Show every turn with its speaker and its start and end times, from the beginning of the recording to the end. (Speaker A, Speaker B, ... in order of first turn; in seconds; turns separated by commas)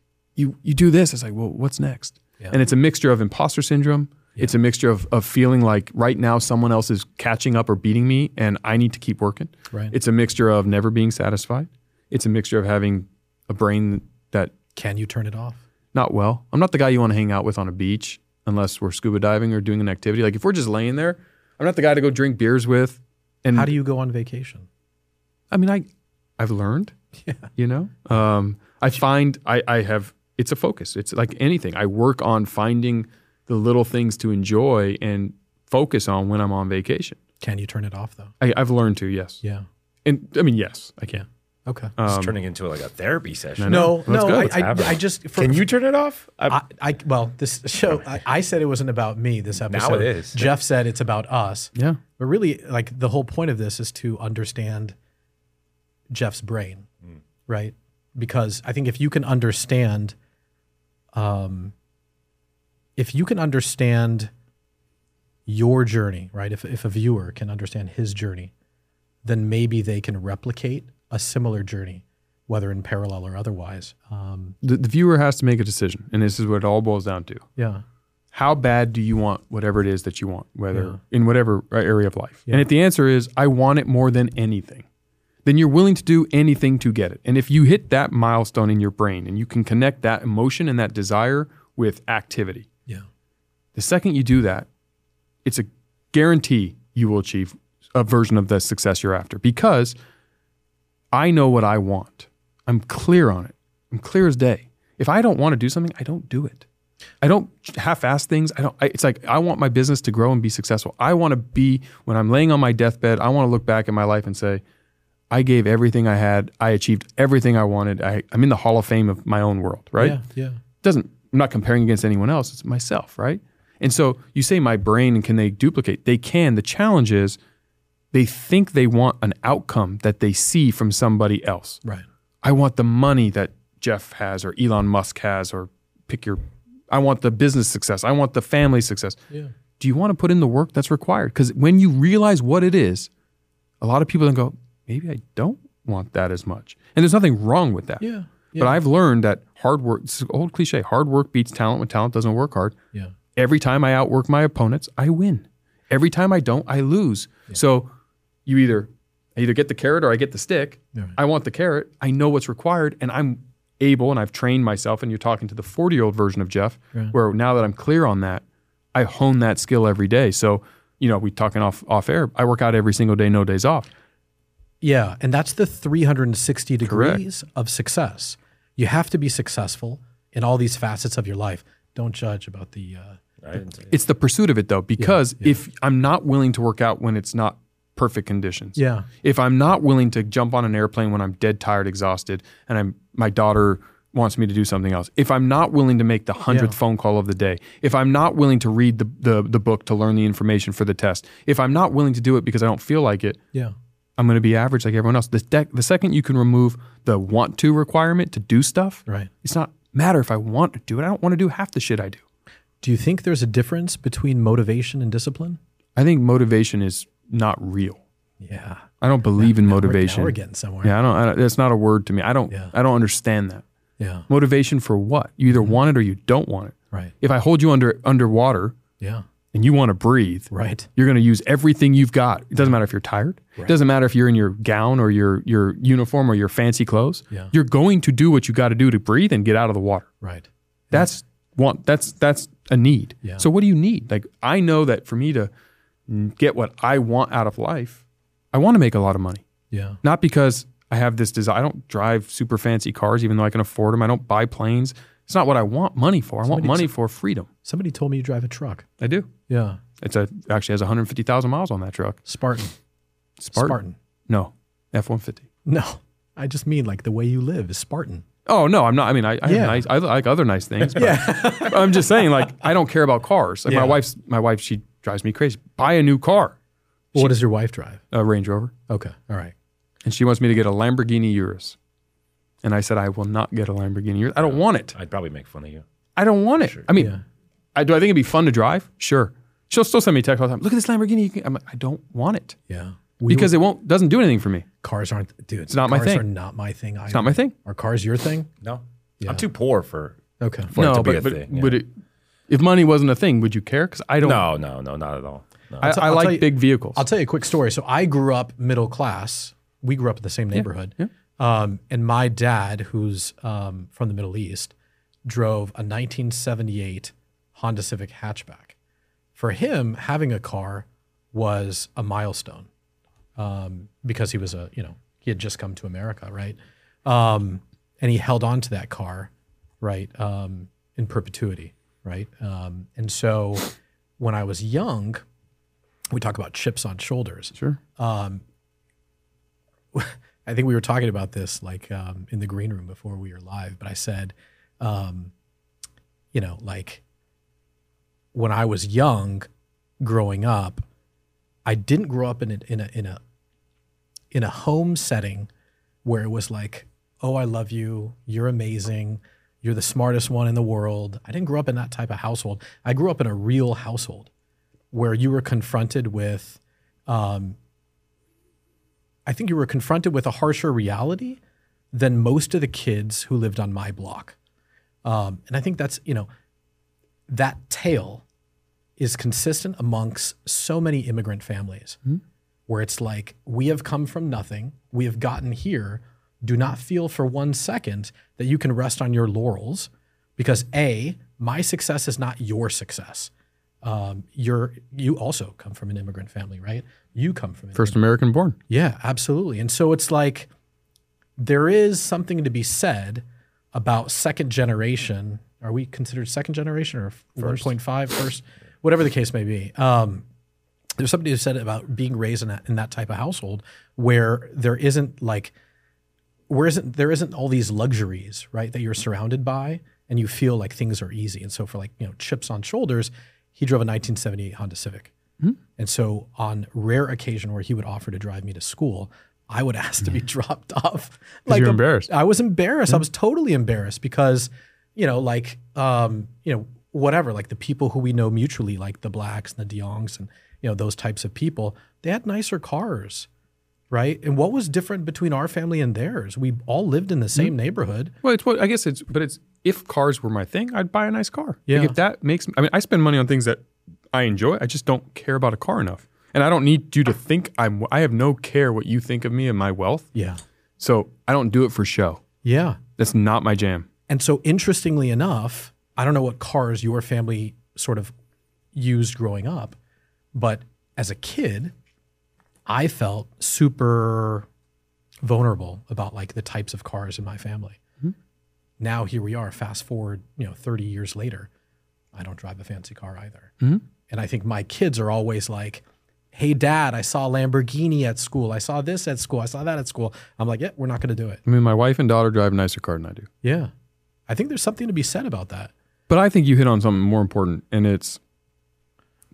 Speaker A: 0.4-14.5, Speaker B: 14.7-15.6, Speaker A: 15.9-23.7, Speaker B: 23.5-24.7, Speaker A: 25.5-25.9, Speaker A: 26.4-26.9, Speaker B: 27.2-27.5, Speaker A: 27.6-37.2, Speaker B: 37.4-38.3, Speaker A: 38.4-39.4, Speaker A: 40.0-41.2, Speaker B: 41.7-42.0, Speaker A: 42.0-42.3, Speaker C: 42.1-46.6, Speaker A: 43.6-44.6, Speaker B: 43.7-45.6, Speaker B: 46.5-55.0, Speaker C: 49.7-50.5, Speaker B: 56.1-56.9, Speaker B: 57.5-60.2, Speaker B: 61.1-61.7, Speaker B: 63.0-64.3, Speaker B: 65.5-68.5, Speaker B: 69.2-74.6, Speaker A: 74.6-77.4, Speaker B: 77.6-77.8, Speaker A: 78.3-84.8, Speaker B: 80.7-81.0, Speaker A: 85.5-92.7, Speaker A: 93.8-94.7, Speaker A: 95.4-100.0, Speaker A: 101.1-106.7, Speaker A: 107.2-114.6, Speaker A: 115.3-120.2, Speaker B: 120.0-120.6, Speaker A: 120.8-127.4, Speaker A: 128.1-131.8, Speaker A: 132.4-139.2, Speaker A: 139.8-143.1, Speaker A: 143.8-148.1, Speaker B: 148.0-148.8, Speaker A: 148.6-152.8, Speaker A: 153.4-157.9, Speaker A: 158.5-173.9, Speaker B: 174.8-183.7, Speaker A: 176.8-177.2, Speaker C: 183.4-183.9, Speaker A: 183.9-203.4, Speaker B: 185.0-185.6, Speaker B: 188.8-189.1, Speaker B: 196.5-196.8, Speaker A: 204.2-212.2, Speaker B: 212.8-215.6, Speaker A: 216.0-218.0, Speaker B: 218.4-220.9, Speaker A: 219.0-223.6, Speaker B: 224.0-224.3, Speaker A: 224.3-228.8, Speaker B: 229.0-229.2, Speaker A: 229.5-240.1, Speaker B: 230.5-230.9, Speaker B: 240.2-241.1, Speaker A: 240.9-245.5, Speaker A: 246.1-249.4, Speaker B: 249.7-250.0, Speaker A: 250.0-257.5, Speaker B: 256.5-256.9, Speaker B: 257.6-258.9, Speaker A: 259.0-259.3, Speaker B: 259.5-259.8, Speaker A: 260.0-262.2, Speaker B: 262.3-262.7, Speaker A: 263.4-263.8, Speaker B: 263.5-264.0, Speaker A: 264.3-265.5, Speaker B: 265.7-268.3, Speaker A: 268.5-276.6, Speaker B: 269.4-269.9, Speaker B: 270.8-272.4, Speaker B: 273.7-274.0, Speaker B: 277.1-278.0, Speaker A: 278.1-278.7, Speaker B: 278.9-279.5, Speaker A: 280.0-281.8, Speaker A: 282.6-284.9, Speaker C: 284.4-285.8, Speaker A: 286.2-287.2, Speaker B: 286.9-287.2, Speaker A: 287.8-292.6, Speaker B: 292.7-293.5, Speaker A: 293.3-294.7, Speaker B: 294.8-298.5, Speaker A: 295.7-296.2, Speaker A: 297.1-297.5, Speaker C: 298.6-300.2, Speaker B: 300.4-300.8, Speaker C: 300.7-301.8, Speaker A: 300.8-301.9, Speaker A: 302.5-304.5, Speaker C: 304.2-305.9, Speaker A: 305.8-307.0, Speaker B: 305.8-314.7, Speaker B: 315.2-318.8, Speaker B: 319.4-322.7, Speaker B: 323.4-335.2, Speaker B: 336.1-338.4, Speaker B: 339.9-345.3, Speaker B: 346.3-347.0, Speaker B: 348.3-349.5, Speaker B: 350.0-350.9, Speaker B: 351.6-353.2, Speaker B: 354.3-355.5, Speaker B: 356.1-364.3, Speaker B: 364.9-367.6, Speaker B: 369.3-371.4, Speaker B: 371.9-374.4, Speaker B: 375.0-376.3, Speaker B: 377.3-378.2, Speaker B: 379.0-382.0, Speaker B: 382.7-393.3, Speaker B: 393.8-398.0, Speaker A: 397.8-398.6, Speaker B: 398.7-400.5, Speaker B: 401.4-410.3, Speaker C: 407.4-407.7, Speaker B: 411.0-415.5, Speaker B: 416.5-425.1, Speaker B: 425.8-443.3, Speaker A: 431.5-432.1, Speaker B: 443.9-448.1, Speaker A: 448.2-453.6, Speaker B: 451.7-452.0, Speaker A: 454.1-460.1, Speaker B: 460.1-460.4, Speaker A: 460.8-462.2, Speaker B: 462.4-462.8, Speaker A: 463.0-463.9, Speaker B: 464.1-468.1, Speaker B: 468.7-469.8, Speaker B: 470.3-471.7, Speaker B: 472.7-474.5, Speaker B: 475.2-477.8, Speaker B: 478.8-481.5, Speaker B: 482.1-483.5, Speaker B: 484.1-491.4, Speaker A: 491.5-493.3, Speaker B: 493.4-493.7, Speaker B: 494.3-495.7, Speaker A: 496.1-498.2